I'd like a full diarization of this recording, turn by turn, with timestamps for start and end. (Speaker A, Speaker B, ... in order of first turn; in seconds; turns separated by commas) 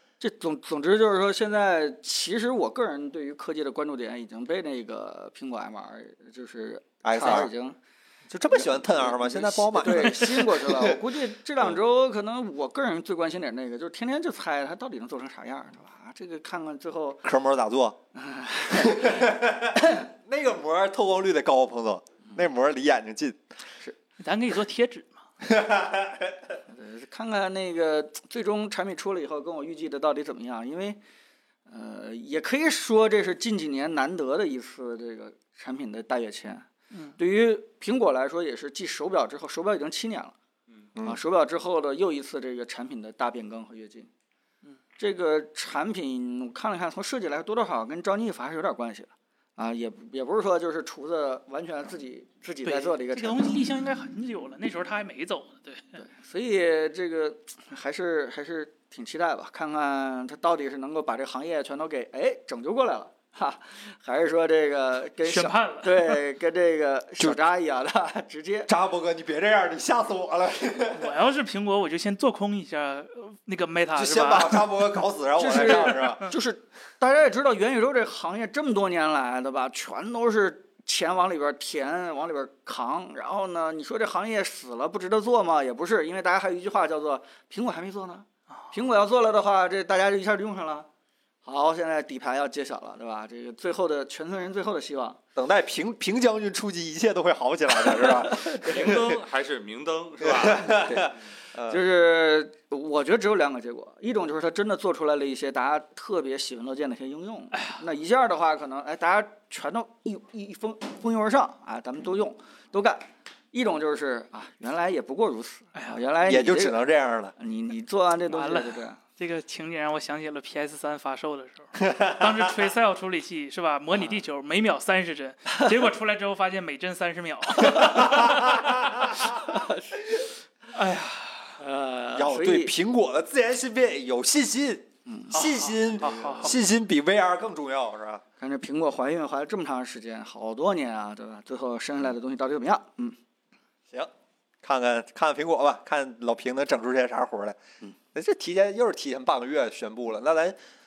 Speaker A: 0.2-7.8, Speaker B: 7.0-7.5, Speaker B: 8.3-11.0, Speaker A: 8.5-17.2, Speaker C: 9.8-10.5, Speaker B: 17.2-18.0, Speaker A: 18.1-20.0, Speaker B: 18.7-23.4, Speaker C: 24.2-25.2, Speaker B: 25.4-26.4, Speaker A: 26.7-31.0, Speaker A: 31.7-36.7, Speaker C: 36.9-37.2, Speaker A: 37.2-40.3, Speaker A: 41.0-44.1, Speaker A: 45.0-53.5, Speaker C: 52.6-56.0, Speaker A: 56.0-68.7, Speaker C: 65.2-66.2, Speaker B: 68.7-71.2, Speaker C: 70.9-74.7, Speaker B: 73.9-76.3, Speaker A: 75.4-90.9, Speaker C: 75.6-76.2, Speaker A: 91.4-95.2, Speaker B: 95.3-99.1, Speaker A: 98.0-99.0, Speaker D: 98.5-101.1, Speaker B: 100.2-101.8, Speaker A: 101.7-116.8, Speaker C: 107.5-107.8, Speaker C: 115.7-116.0, Speaker B: 116.2-117.3, Speaker A: 117.4-119.0, Speaker C: 118.3-129.1, Speaker B: 121.8-122.3, Speaker B: 127.7-129.3, Speaker A: 129.4-129.9, Speaker C: 130.7-131.6, Speaker A: 131.6-132.7, Speaker B: 132.1-138.2, Speaker A: 135.1-135.4, Speaker C: 135.3-136.6, Speaker A: 136.0-136.4, Speaker A: 138.4-143.2, Speaker B: 144.6-147.6, Speaker B: 148.1-150.6